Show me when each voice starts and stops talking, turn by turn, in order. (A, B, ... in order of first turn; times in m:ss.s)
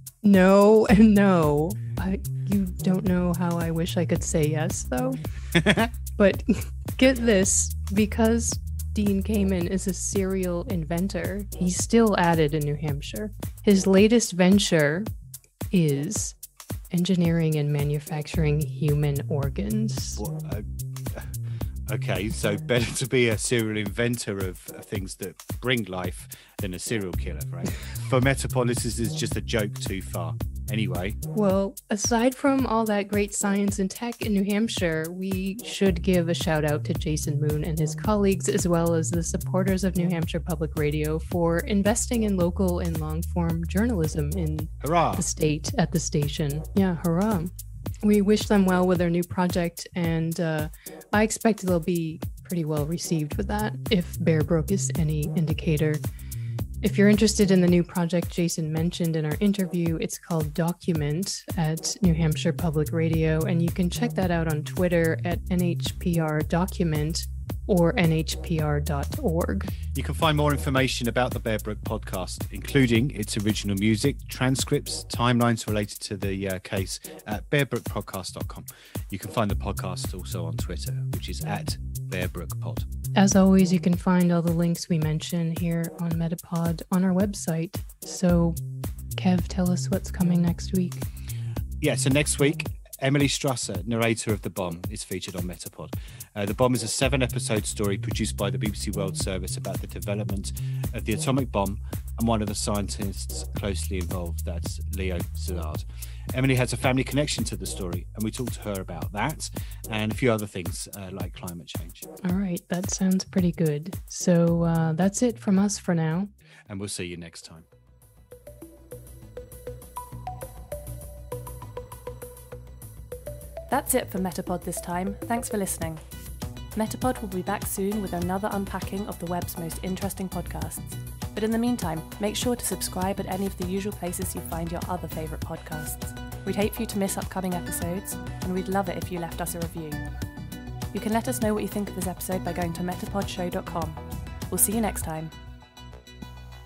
0:00.2-0:05.2 A
0:05.6-0:05.9 B
0:06.2-0:15.1 A
0:15.7-0:16.3 A
0:16.9-0:20.2 A
0:20.2-0:21.3 B
0:21.9-0:31.2 B
0:31.3-0:47.5 A
0:44.8-0:45.3 B
0:48.0-0:56.0 A
0:56.8-1:09.7 A
1:09.9-1:22.9 B
1:23.1-1:28.6 A
1:29.2-1:31.0 A
1:31.8-1:52.1 B
1:52.2-1:56.3 A
1:56.7-1:57.7 B
2:03.7-2:06.0 C
2:06.7-2:20.1 C
2:20.9-2:25.3 C